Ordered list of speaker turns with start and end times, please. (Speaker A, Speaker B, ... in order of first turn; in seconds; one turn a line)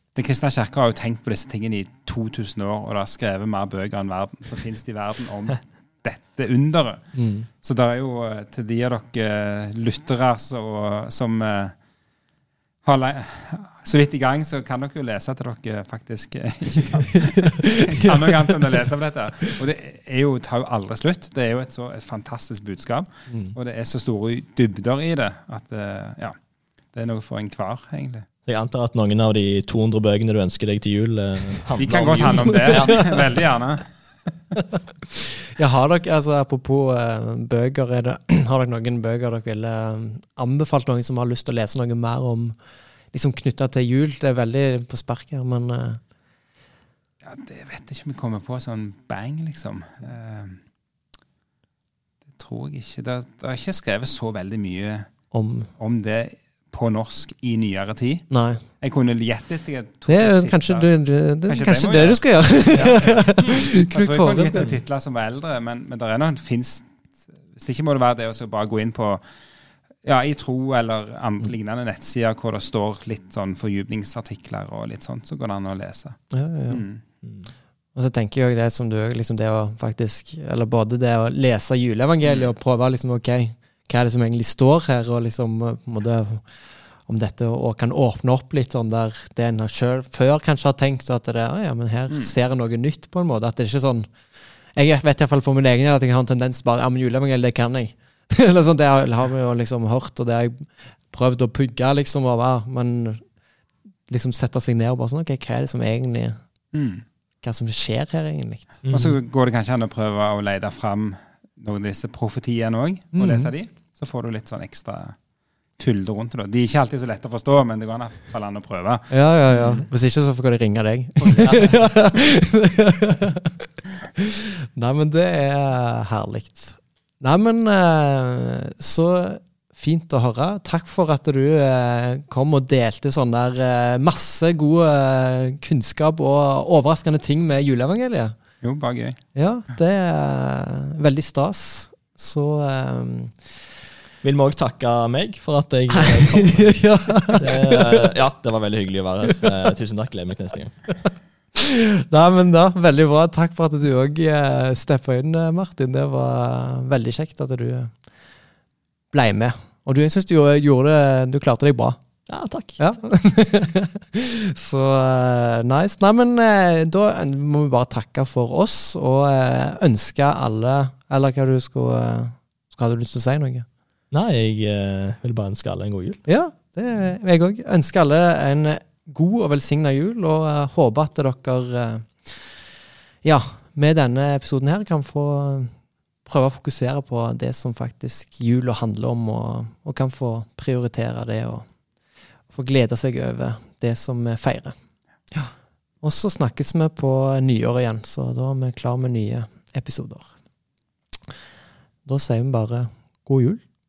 Speaker A: 0.1-11.8
Speaker B: 7.1-7.5
Speaker A: 12.8-26.4
Speaker B: 16.8-18.9
Speaker B: 23.3-23.6
Speaker A: 26.9-28.3
Speaker C: 28.5-33.2
Speaker A: 31.8-33.9
Speaker B: 32.5-33.2
Speaker B: 35.6-42.6
Speaker B: 43.1-46.0
Speaker A: 47.2-50.6
Speaker A: 52.4-55.1
Speaker B: 55.3-55.7
Speaker A: 55.8-60.9
Speaker B: 58.3-58.6
Speaker B: 60.1-64.7
Speaker A: 61.5-66.9
Speaker A: 67.5-69.2
Speaker A: 70.0-77.0
Speaker B: 76.3-76.8
Speaker C: 77.2-77.5
Speaker B: 78.0-86.5
Speaker A: 82.2-82.5
Speaker B: 87.0-94.1
Speaker B: 94.7-103.3
Speaker B: 104.1-106.4
Speaker A: 106.7-107.0
Speaker B: 107.4-108.8
Speaker C: 108.8-109.2
Speaker A: 108.9-115.2
Speaker B: 113.1-113.5
Speaker A: 115.8-119.1
Speaker B: 119.1-123.6
Speaker A: 121.2-121.6
Speaker C: 121.4-121.7
Speaker B: 124.2-138.4
Speaker A: 138.6-139.2
Speaker B: 139.3-143.5
Speaker C: 144.2-150.9
Speaker B: 146.0-148.1
Speaker B: 151.7-157.9
Speaker B: 159.1-162.0
Speaker C: 162.3-162.8
Speaker B: 162.8-173.7
Speaker C: 174.1-176.2
Speaker B: 176.3-182.7
Speaker B: 183.2-191.7
Speaker B: 192.5-194.8
Speaker B: 196.0-200.3
Speaker B: 202.1-203.6